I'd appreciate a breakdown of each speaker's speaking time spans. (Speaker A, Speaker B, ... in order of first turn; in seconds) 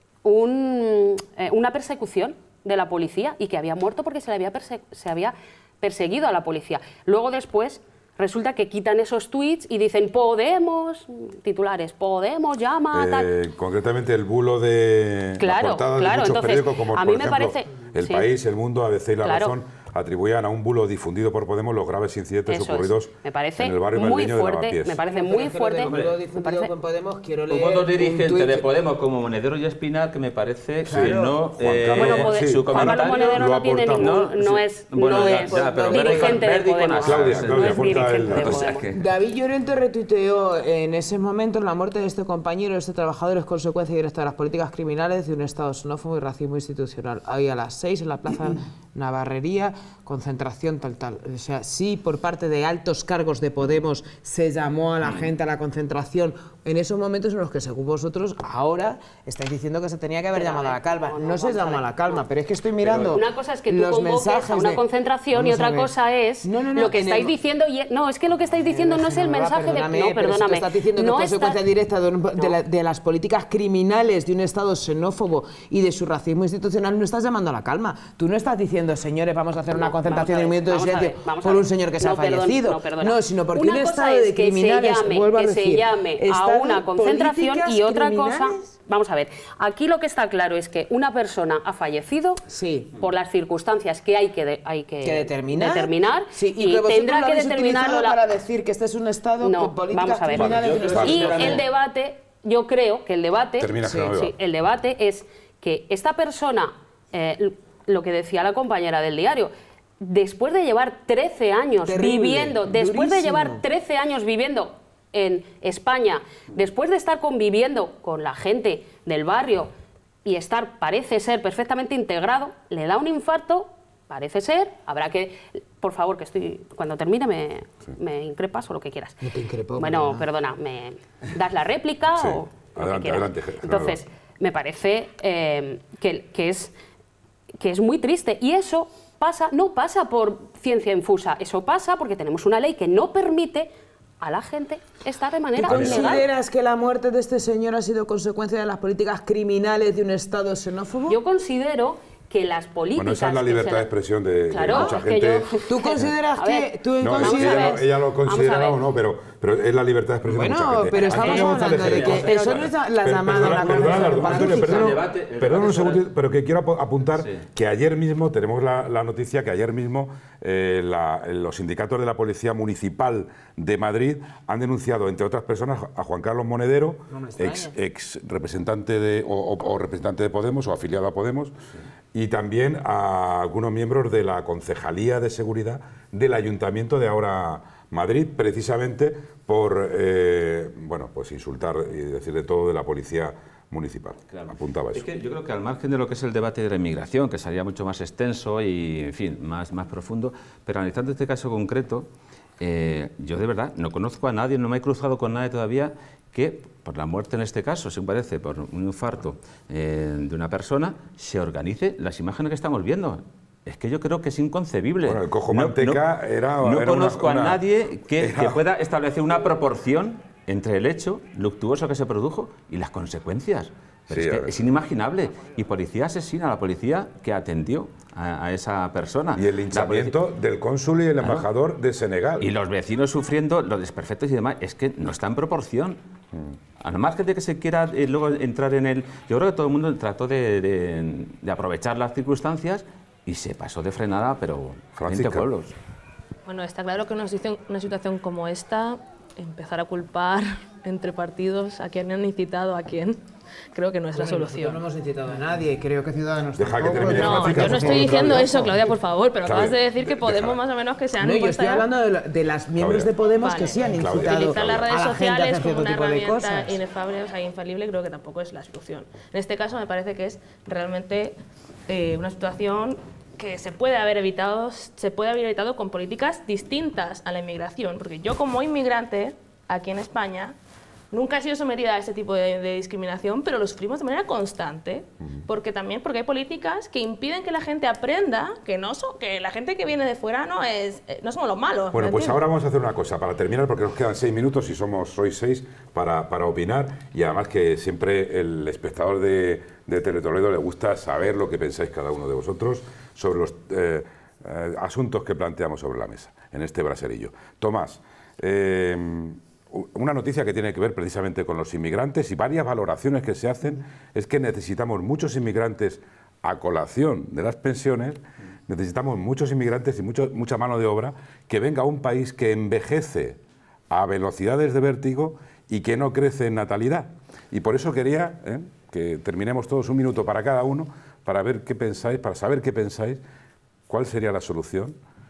Speaker A: 0.2-13.3, 15.4-18.3, 19.2-19.5, 22.5-26.7, 31.9-38.9, 60.3-62.2, 62.9-71.6, 79.7-92.4, 92.9-98.2, 99.4-119.7, 120.2-129.2, 129.8-136.7, 137.6-146.2, 151.1-153.9, 154.5-158.8
Speaker B: 12.9-25.0, 30.8-34.4, 37.0-38.8, 100.4-101.5, 103.6-104.3, 132.1-134.0, 145.7-146.2, 152.9-155.5, 157.0-181.5, 182.1-195.0, 215.1-217.6, 218.2-218.6, 224.1-224.6, 229.3-232.5, 244.9-245.5, 256.6-258.7, 259.4-260.6, 262.8-263.1, 263.9-265.1, 291.9-323.4, 323.9-333.2, 333.9-335.0
Speaker C: 25.1-28.7, 30.8-31.4, 35.0-36.4, 38.9-67.3, 68.5-88.6, 92.5-92.9, 95.0-101.6, 103.8-104.1, 111.8-113.6, 129.2-130.3, 145.6-151.2, 155.7-157.8, 160.2-164.9, 177.1-177.7, 254.1-258.7, 261.2-266.8
Speaker D: 25.9-26.1, 27.5-33.4, 33.9-39.0, 100.3-101.6, 161.1-162.7, 163.5-166.0, 167.2-167.4, 194.3-202.1, 202.6-216.0, 216.6-230.2, 231.2-231.5, 232.4-236.0, 236.8-245.7
Speaker E: 246.4-253.2, 253.7-254.8, 257.0-261.9, 263.3-280.5, 281.1-292.4